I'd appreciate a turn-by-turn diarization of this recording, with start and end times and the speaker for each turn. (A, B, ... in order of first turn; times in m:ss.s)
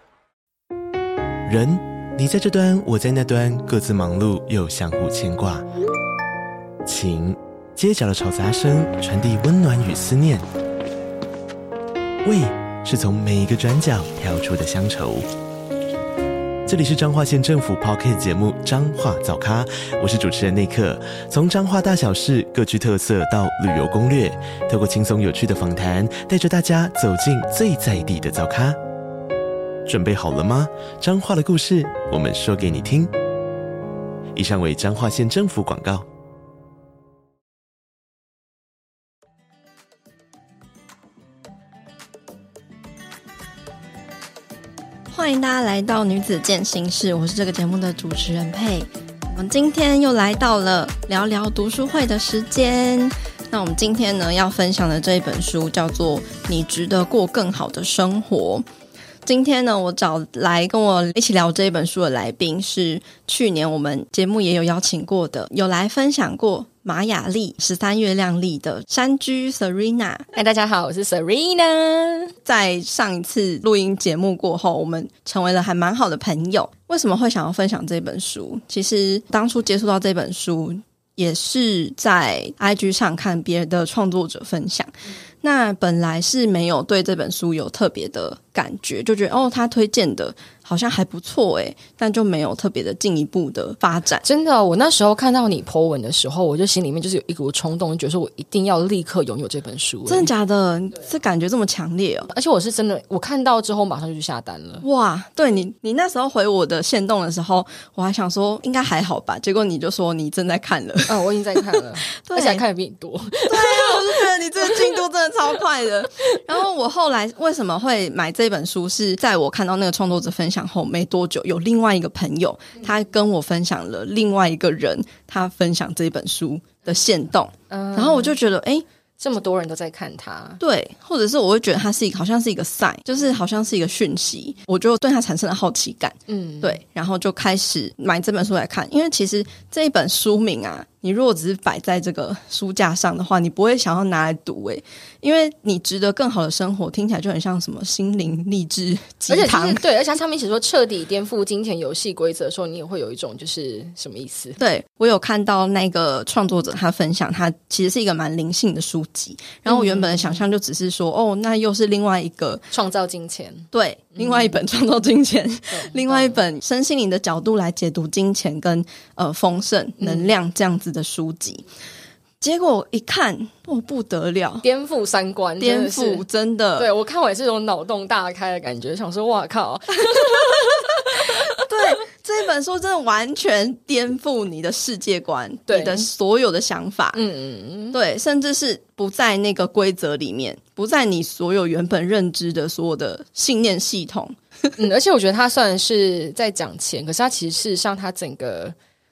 0:01.4-0:05.6 A
0:06.8-0:10.5 A
0:12.2-0:15.3 A
0:16.6-0:28.8 A
0:29.9-0:33.1 A
0:34.4-0:36.0 A
0:45.1-0:58.7 B
0:59.2-1:10.3 B
1:10.3-1:12.3 C
1:12.4-1:34.2 B
1:34.2-1:40.3 C
1:40.1-1:42.3 B
1:42.3-1:44.8 C
1:44.8-1:52.6 B
1:51.1-1:54.9 C
1:53.4-2:08.8 B
2:07.7-2:08.3 C
2:09.2-2:10.6 C
2:10.6-2:29.8 B
2:16.3-2:16.8 C
2:29.3-2:34.6 C
2:34.6-2:42.6 B
2:39.7-2:40.4 C
2:42.7-2:44.4 C
2:43.7-2:51.6 B
2:45.7-2:46.4 C
2:50.0-2:50.3 C
2:52.4-2:54.6 B
2:54.6-2:56.2 C
2:55.6-2:56.9 B
2:56.8-3:01.2 C
3:01.6-3:07.2 B
3:05.7-3:06.0 C
3:07.1-3:08.0 C
3:07.9-3:14.7 B
3:14.8-3:18.7 C